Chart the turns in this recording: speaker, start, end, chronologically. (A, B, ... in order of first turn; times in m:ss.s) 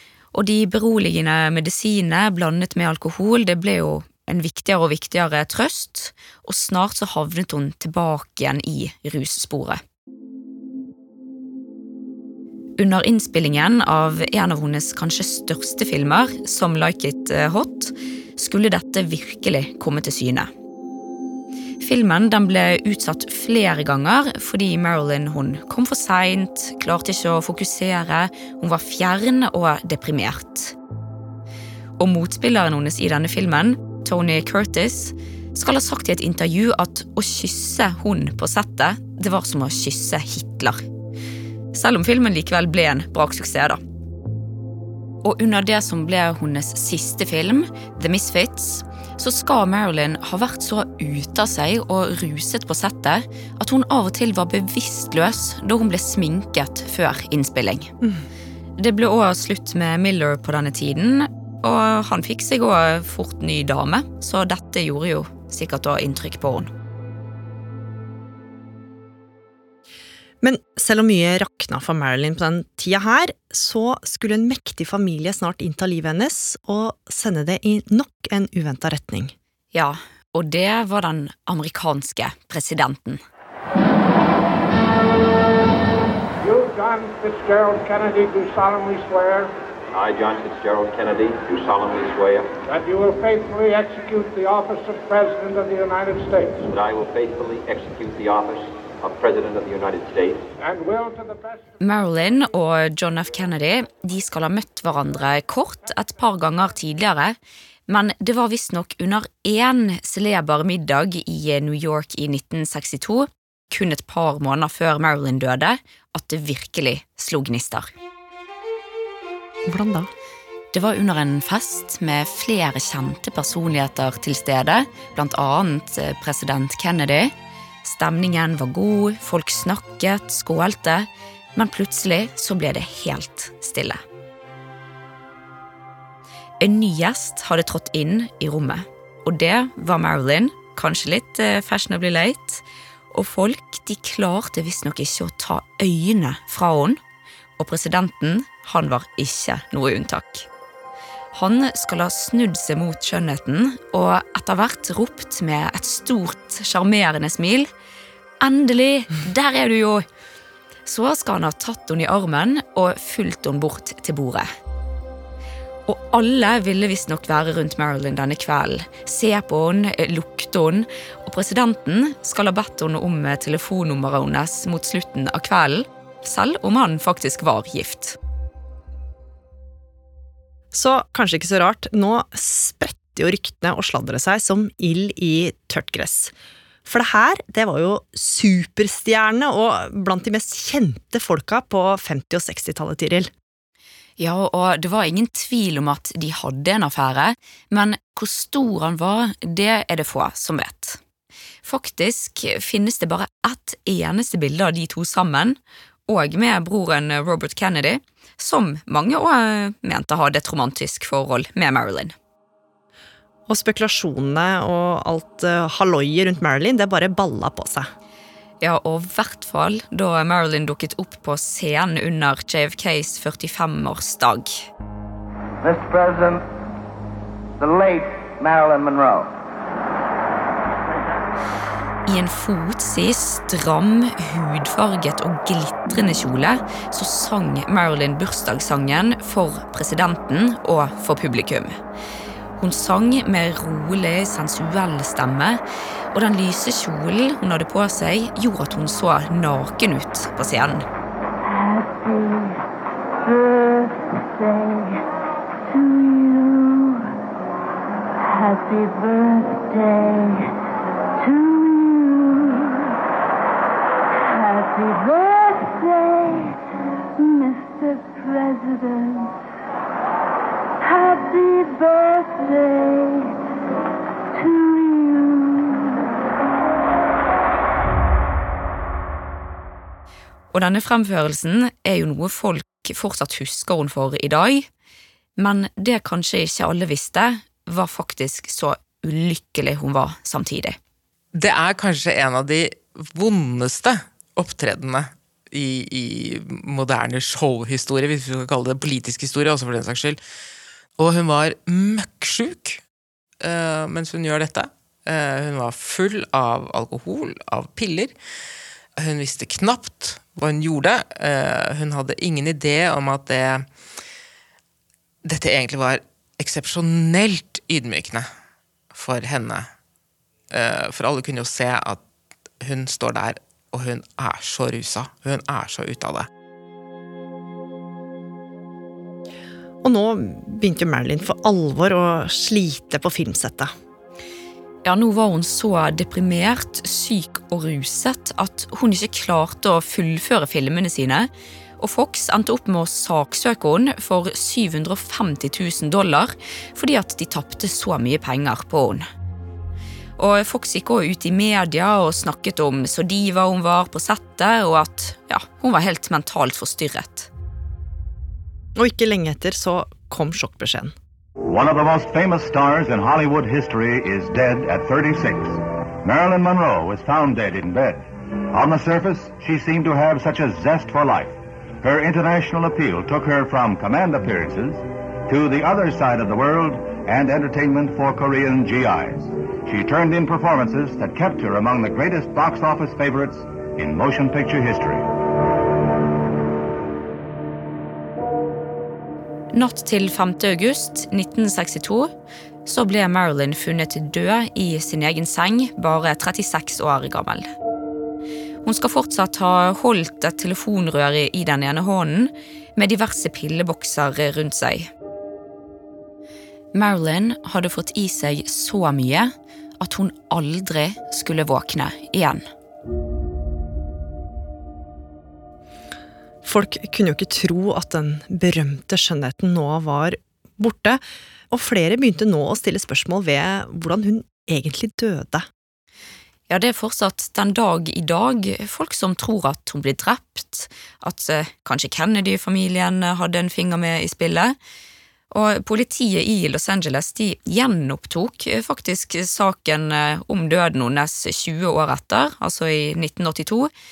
0:00.3-0:09.8 A
0:12.8-0:20.5 A
0:21.8-0:30.7 A
0:32.0-0:40.8 A
0:41.7-0:43.8 A
0:45.2-0:57.9 A
0:58.8-1:06.7 A
1:10.4-1:19.3 B
1:19.7-1:23.2 A
1:26.4-1:29.5 C
1:29.9-1:32.5 D
1:32.7-1:36.6 C
1:36.6-1:40.5 D
1:40.6-1:41.6 C
1:41.8-1:47.4 A
1:47.9-1:57.9 A
1:59.6-2:00.1 B
2:00.7-2:07.3 A
2:07.8-2:14.0 A
2:16.6-2:27.0 A
2:27.6-2:30.5 A
2:31.3-2:37.7 A
2:38.4-2:40.1 A
2:40.8-2:44.5 A
2:45.9-2:58.2 A
3:00.7-3:06.3 B
3:06.8-3:13.3 B
3:14.2-3:21.0 A
3:21.6-3:25.6 A
3:26.1-3:32.1 A
3:33.5-3:37.9 B
3:38.6-3:44.7 A
3:45.6-3:46.4 E
3:47.6-3:49.3 E
3:52.1-4:01.8 A
4:02.6-4:05.6 A
4:06.1-4:10.8 A
4:11.4-4:12.6 F
4:13.2-4:15.0 F
4:15.7-4:17.1 F
4:18.2-4:20.5 F
4:21.2-4:23.0 F
4:24.2-4:26.6 F
4:27.2-4:29.4 F
4:30.8-4:33.3 F
4:34.3-4:35.9 F
4:40.5-4:44.7 A
4:45.4-4:50.8 A
4:51.3-5:00.2 G
5:01.0-5:02.8 G
5:03.4-5:08.1 G
5:09.0-5:13.6 G
5:15.2-5:18.3 G
5:18.9-5:19.7 G
5:20.5-5:22.0 G
5:22.6-5:26.3 G
5:29.8-5:33.7 B
5:34.8-5:49.0 A
5:50.2-5:57.3 A
5:58.8-6:00.9 B
6:01.4-6:25.1 H
6:29.5-6:32.1 A
6:32.6-6:37.5 A
6:38.6-6:44.9 A
6:46.7-6:52.4 A
6:56.4-7:05.4 B
7:06.5-7:14.5 A
7:15.3-7:23.7 A